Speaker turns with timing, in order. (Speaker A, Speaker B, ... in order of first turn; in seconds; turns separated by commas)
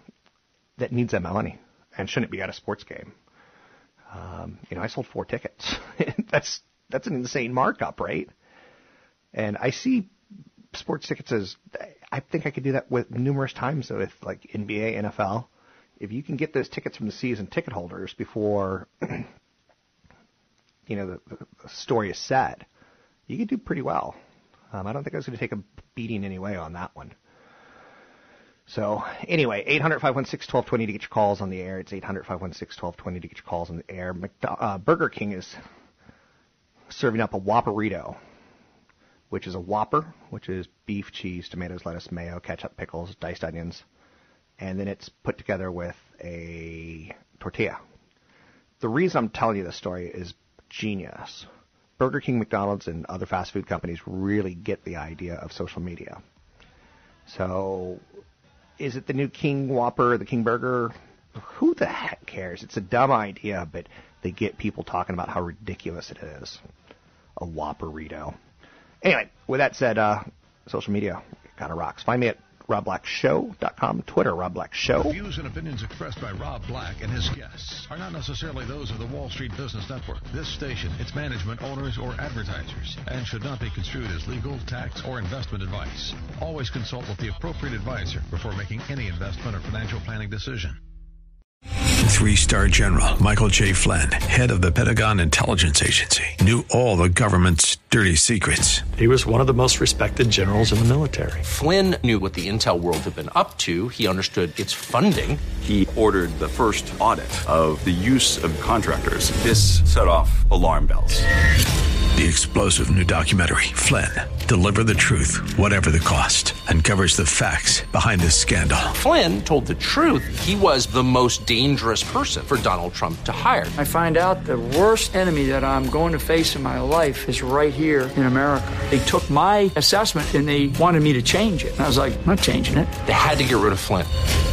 Speaker A: 0.8-3.1, Speaker A: 4.1-8.3, Speaker A: 9.3-10.1, Speaker A: 10.7-19.3, Speaker A: 20.9-22.7, Speaker A: 23.3-24.2, Speaker A: 24.7-27.1, Speaker A: 28.7-35.6, Speaker A: 36.9-38.2, Speaker A: 39.3-43.8, Speaker A: 44.6-47.8, Speaker A: 48.8-56.2, Speaker A: 57.3-58.0, Speaker A: 58.8-66.6, Speaker A: 67.4-68.3, Speaker A: 69.0-75.1, Speaker B: 74.9-90.8, Speaker C: 92.0-98.9, Speaker D: 99.0-101.4, Speaker E: 101.4-105.4, Speaker F: 105.6-111.3, Speaker C: 112.1-118.9, Speaker E: 119.0-123.8, Speaker G: 123.8-132.9, Speaker E: 133.0-134.1